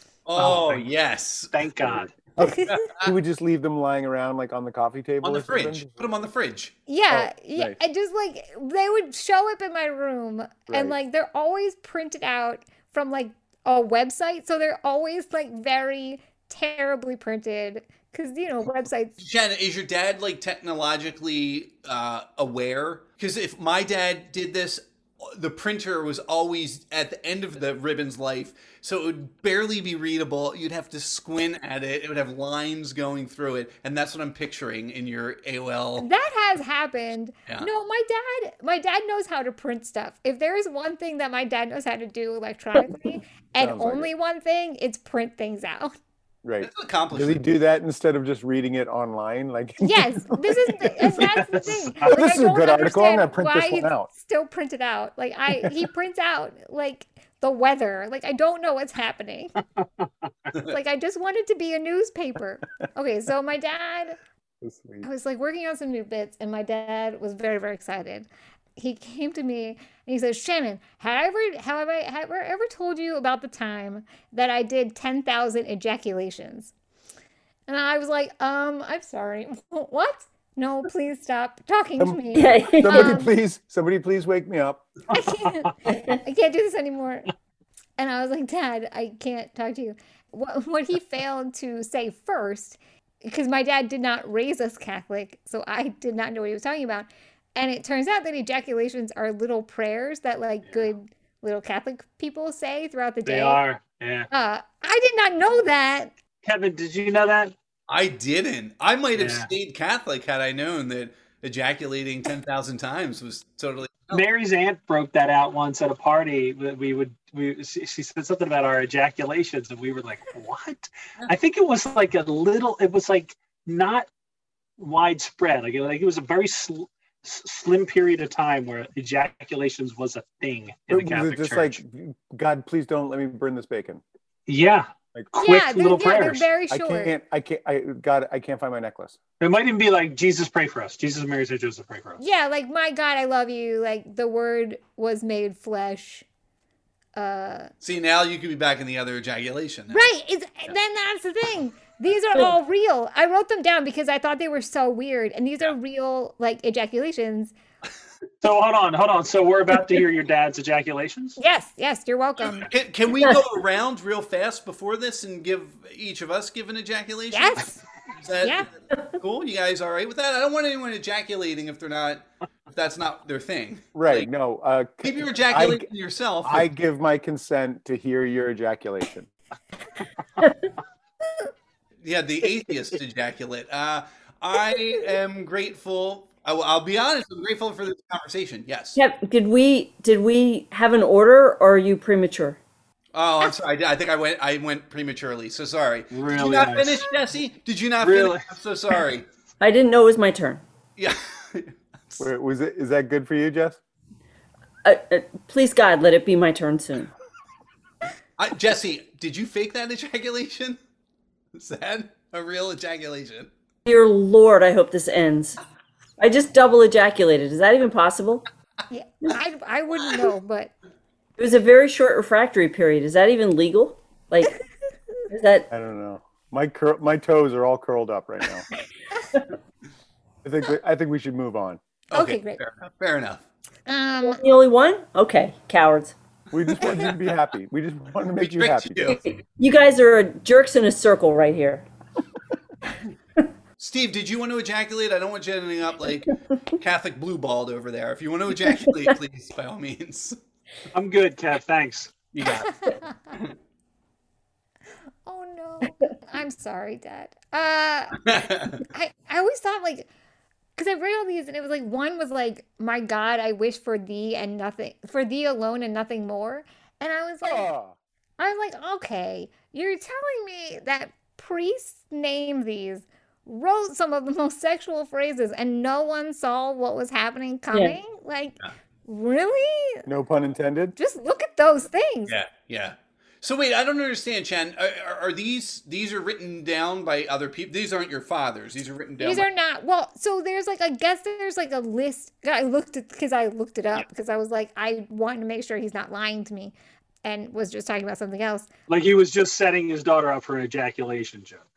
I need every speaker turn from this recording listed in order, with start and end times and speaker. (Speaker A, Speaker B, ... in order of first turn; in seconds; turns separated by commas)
Speaker A: 0.3-1.5, Speaker B: 0.4-0.8, Speaker B: 1.5-2.1, Speaker C: 1.8-6.1, Speaker D: 2.4-2.8, Speaker A: 2.7-3.1, Speaker A: 5.2-6.7, Speaker D: 6.9-19.1, Speaker C: 7.1-7.8, Speaker C: 10.7-11.0, Speaker A: 19.2-36.1, Speaker D: 36.0-45.9, Speaker C: 43.6-44.1, Speaker C: 46.4-51.3, Speaker A: 46.6-47.4, Speaker D: 49.8-59.5, Speaker B: 51.2-52.1, Speaker C: 52.0-54.1, Speaker B: 59.8-60.1, Speaker D: 60.6-64.2, Speaker C: 64.6-65.1, Speaker D: 65.0-76.7, Speaker D: 77.7-83.3, Speaker E: 82.3-83.2, Speaker C: 82.8-84.9, Speaker D: 85.1-87.3, Speaker E: 85.9-86.2, Speaker D: 88.0-103.6, Speaker B: 103.2-104.3, Speaker D: 104.3-106.1, Speaker B: 106.4-107.5, Speaker A: 107.9-114.2, Speaker B: 109.2-109.5, Speaker B: 114.1-124.1, Speaker B: 124.8-131.8, Speaker C: 130.9-134.0, Speaker B: 134.5-136.5, Speaker D: 135.4-137.1, Speaker C: 136.7-139.2, Speaker B: 139.4-142.2, Speaker D: 142.2-146.2, Speaker D: 147.2-147.7, Speaker A: 147.8-150.1, Speaker D: 149.9-157.5, Speaker B: 158.4-161.4, Speaker D: 161.4-162.7, Speaker A: 162.4-167.7, Speaker D: 167.3-167.8, Speaker A: 168.2-174.3, Speaker D: 168.4-168.7, Speaker C: 173.9-175.9, Speaker A: 175.0-176.7, Speaker C: 176.4-179.3, Speaker A: 182.0-189.0, Speaker E: 188.9-192.6, Speaker A: 193.1-199.3, Speaker B: 196.1-197.0, Speaker B: 198.0-198.5, Speaker E: 199.6-200.6, Speaker A: 201.0-202.3, Speaker C: 202.2-203.8, Speaker E: 204.8-207.1, Speaker A: 208.4-210.8, Speaker A: 211.5-213.5, Speaker E: 213.9-215.6, Speaker E: 216.2-218.4, Speaker D: 218.9-220.7, Speaker E: 221.4-224.5, Speaker E: 225.3-225.7, Speaker C: 225.7-228.7, Speaker C: 230.4-231.8, Speaker A: 232.1-233.4, Speaker D: 232.1-232.6, Speaker D: 233.9-234.4, Speaker E: 234.2-236.2, Speaker C: 236.5-239.2, Speaker A: 236.8-237.2, Speaker A: 238.4-239.2, Speaker E: 239.1-241.9, Speaker A: 243.8-250.4, Speaker B: 250.9-252.1, Speaker A: 252.3-253.5, Speaker D: 252.7-253.1, Speaker D: 255.2-260.1, Speaker A: 258.2-258.8, Speaker D: 260.8-267.7, Speaker C: 267.4-267.9, Speaker D: 268.4-280.1, Speaker E: 277.7-278.0, Speaker C: 280.1-281.0, Speaker D: 281.0-282.4, Speaker A: 282.3-289.5, Speaker D: 289.2-298.7, Speaker B: 298.9-301.6